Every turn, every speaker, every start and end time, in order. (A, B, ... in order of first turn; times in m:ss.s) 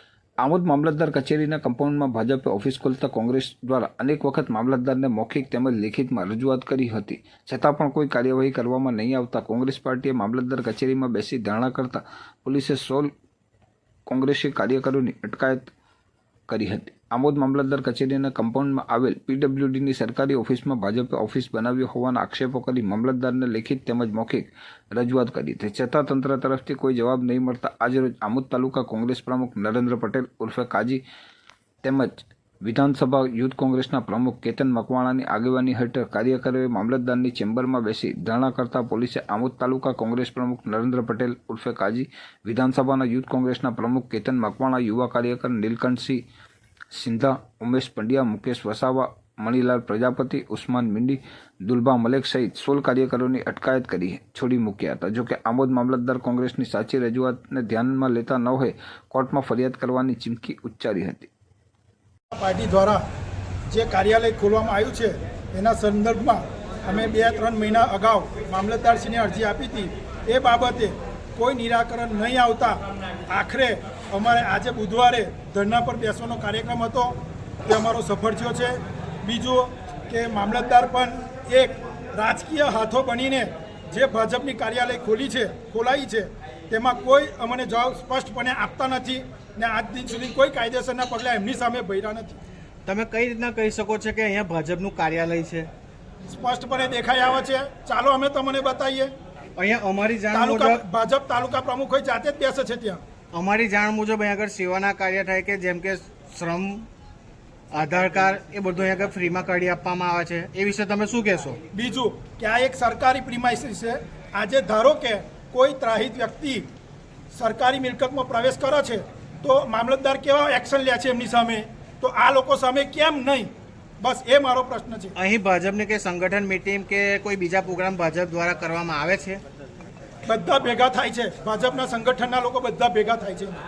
0:00.4-0:13.1 A
0:14.1-0:15.7 A
0:16.5-0:31.0 A
0:31.8-0:46.2 A
0:46.9-1:01.3 A
1:02.3-1:03.0 B
1:03.7-1:32.4 B
1:32.9-1:35.7 C
1:36.3-1:39.1 B
1:39.6-1:40.8 C
1:40.3-1:43.0 B
1:43.3-1:46.9 C
1:47.7-1:51.6 C
1:51.7-1:56.7 B
1:57.3-2:05.1 B
2:05.2-2:09.4 C
2:10.3-2:13.6 B